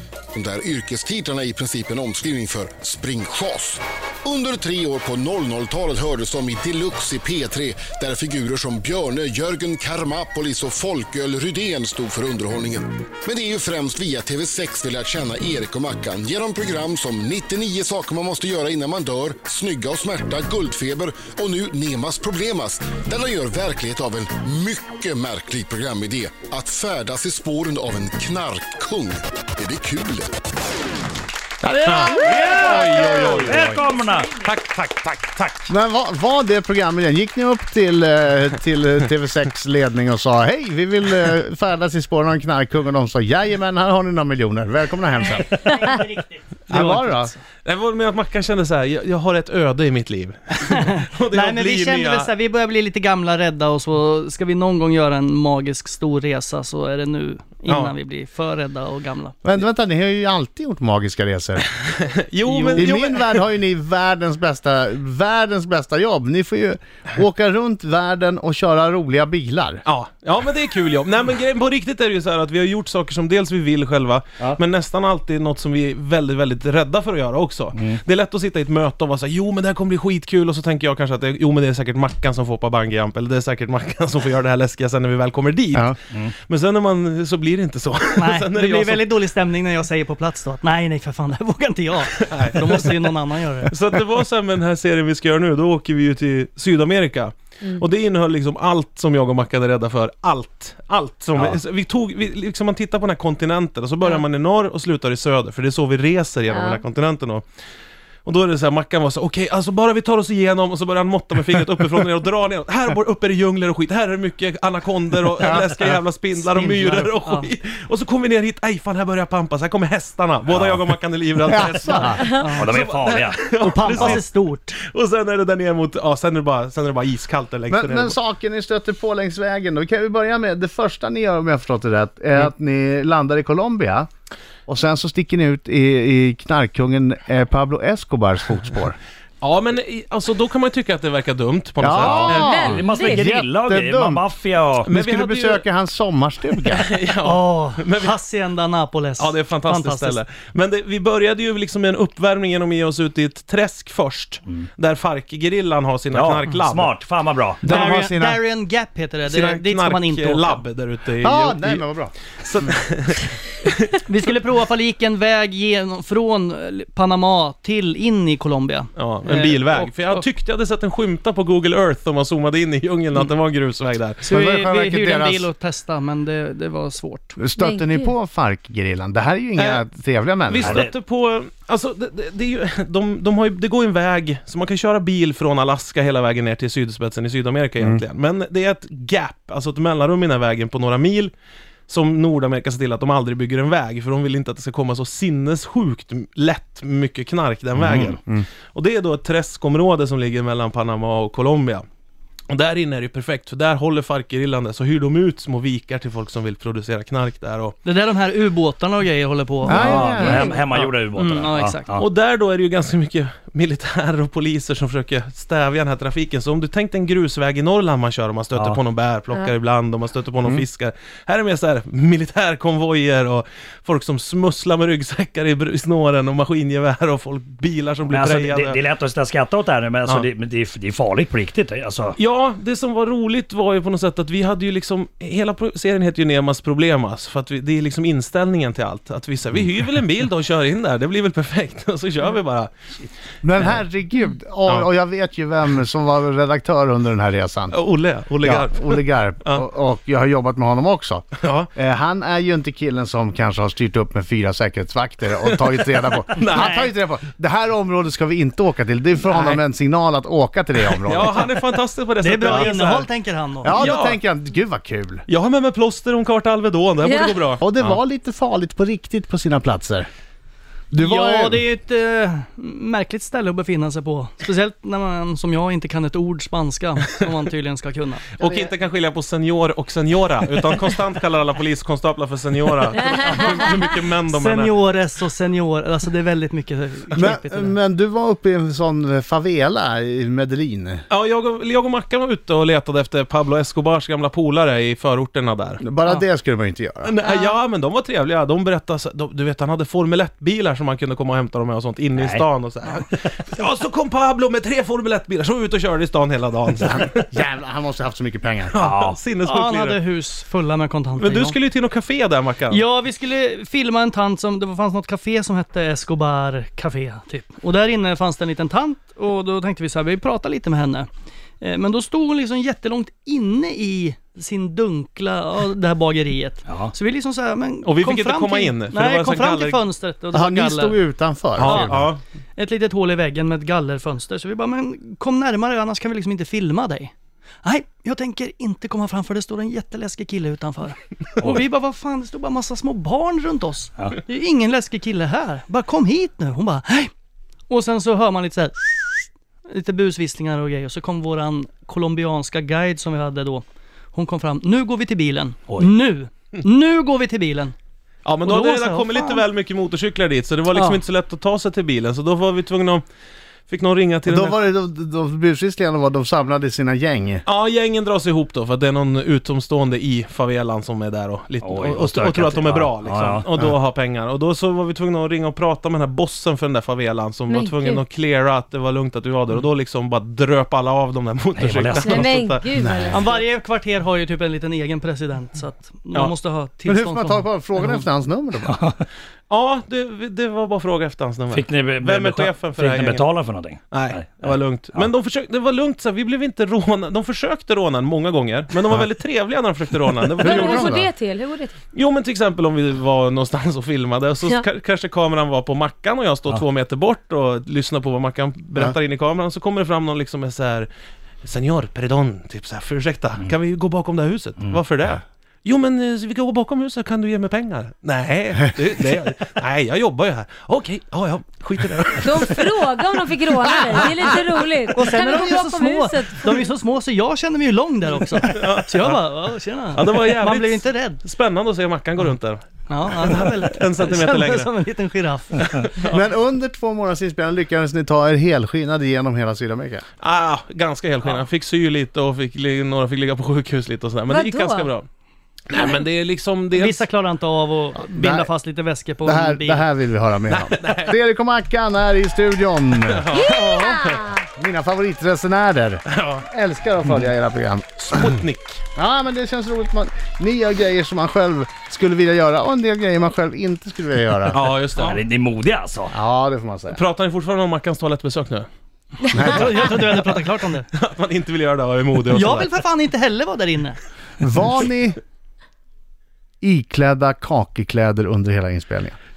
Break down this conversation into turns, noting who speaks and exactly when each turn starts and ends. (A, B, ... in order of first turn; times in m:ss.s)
0:00.3-0:30.3 A
0:31.6-0:33.7 B
0:31.9-0:33.9 C
0:32.1-0:34.3 D
0:33.5-0:34.2 E
0:34.4-0:35.7 C
0:35.7-0:45.5 B
0:45.3-0:47.4 F
0:46.7-0:47.3 B
0:47.6-0:52.3 C
0:50.6-0:59.4 F
0:57.7-0:57.9 C
0:59.4-1:01.6 B
1:01.8-1:03.4 C
1:02.4-1:03.0 F
1:02.8-1:09.8 B
1:09.9-1:29.1 C
1:28.2-1:33.8 F
1:32.2-1:32.9 C
1:33.7-1:47.5 C
1:46.5-1:46.8 E
1:48.2-2:08.2 C
1:56.3-1:57.5 F
2:00.5-2:00.8 D
2:01.5-2:02.2 B
2:02.0-2:02.5 E
2:02.4-2:02.6 F
2:02.5-2:04.2 D
2:03.6-2:04.8 F
2:07.7-2:14.1 B
2:14.7-2:19.0 B
2:19.4-2:22.7 C
2:21.8-2:24.2 B
2:22.0-2:24.9 D
2:22.3-2:23.3 E
2:24.8-2:26.9 B
2:24.9-2:25.6 C
2:26.7-2:28.2 C
2:27.2-2:30.2 F
2:29.2-2:36.9 C
2:36.1-2:37.6 D
2:37.6-2:38.4 B
2:37.7-2:40.6 F
2:39.2-2:44.0 C
2:41.2-2:42.1 B
2:44.1-2:50.3 F
2:49.0-2:54.3 C
2:54.2-2:57.4 F
2:54.2-2:55.5 B
2:57.4-3:00.9 B
2:57.6-2:58.1 E
2:59.6-2:59.8 C
3:00.5-3:11.3 C
3:00.6-3:00.9 D
3:11.9-3:18.2 C
3:17.9-3:18.5 B
3:18.7-3:21.8 C
3:22.5-3:27.8 C
3:27.8-3:32.0 F
3:29.7-3:30.5 B
3:29.7-3:30.5 E
3:29.8-3:32.0 D
3:32.0-3:48.8 C
3:48.1-3:52.1 D
3:52.2-4:02.7 C
4:03.4-4:07.8 B
4:07.7-4:09.6 C
4:08.4-4:21.4 B
4:11.4-4:11.7 C
4:16.3-4:16.8 C
4:16.5-4:16.9 F
4:19.3-4:19.6 C
4:20.9-4:23.1 C
4:22.2-4:23.9 F
4:23.6-4:25.2 B
4:23.8-4:24.2 C
4:25.3-4:28.0 C
4:27.0-4:27.4 E
4:27.6-4:30.1 B
4:30.9-4:31.6 B
4:31.0-4:38.3 F
4:38.4-4:44.7 C
4:38.4-4:38.7 B
4:44.3-4:47.8 F
4:47.1-4:51.0 B
4:51.1-4:55.8 C
4:55.8-4:57.1 B
4:57.0-5:07.3 C
4:57.2-4:57.6 E
5:02.2-5:02.5 D
5:06.8-5:08.7 B
5:08.7-5:10.0 C
5:08.8-5:09.2 D
5:09.4-5:11.6 F
5:11.2-5:12.8 C
5:12.7-5:21.1 F
5:21.6-5:31.0 F
5:26.7-5:27.0 D
5:27.8-5:29.8 C
5:30.3-5:32.1 B
5:31.6-5:32.2 C
5:31.6-5:32.0 F
5:32.6-5:37.1 F
5:37.6-5:47.1 F
5:41.4-5:41.6 D
5:47.7-5:57.7 F
5:55.7-5:56.0 D
5:58.2-6:03.0 C
5:58.4-5:59.4 F
6:00.7-6:01.0 E
6:03.7-6:04.6 C
6:04.2-6:07.4 B
6:07.5-6:22.6 C
6:11.6-6:13.6 D
6:17.5-6:18.0 E
6:21.6-6:22.3 D
6:22.0-6:23.3 E
6:22.8-6:23.2 B
6:23.1-6:27.6 F
6:26.9-6:28.8 B
6:28.6-6:29.0 D
6:29.5-6:33.3 C
6:31.5-6:35.1 D
6:33.9-6:41.0 C
6:40.4-6:41.1 B
6:40.4-6:41.7 E
6:41.9-6:50.9 C
6:51.4-7:02.7 C
7:02.2-7:06.6 E
7:03.5-7:04.6 C
7:04.9-7:11.2 F
7:08.5-7:09.2 C
7:09.9-7:14.7 C
7:12.9-7:15.8 F
7:15.6-7:16.2 C
7:16.1-7:20.0 B
7:20.2-7:25.1 C
7:24.3-7:24.9 E
7:25.7-7:27.0 C
7:26.8-7:29.9 F
7:28.1-7:28.5 B
7:29.2-7:33.4 B
7:30.5-7:31.2 C
7:33.1-7:34.2 C
7:33.3-7:34.4 E
7:34.6-7:38.2 B
7:36.1-7:36.4 C
7:38.0-7:38.8 C
7:39.0-7:44.6 B
7:44.5-7:45.2 C
7:45.0-7:46.2 D
7:46.1-7:47.0 B
7:46.9-7:48.7 C
7:49.3-7:49.8 B
7:49.3-7:50.9 F
7:51.0-7:52.7 C
7:52.2-7:54.0 F
7:54.4-7:55.2 B
7:56.6-7:59.2 B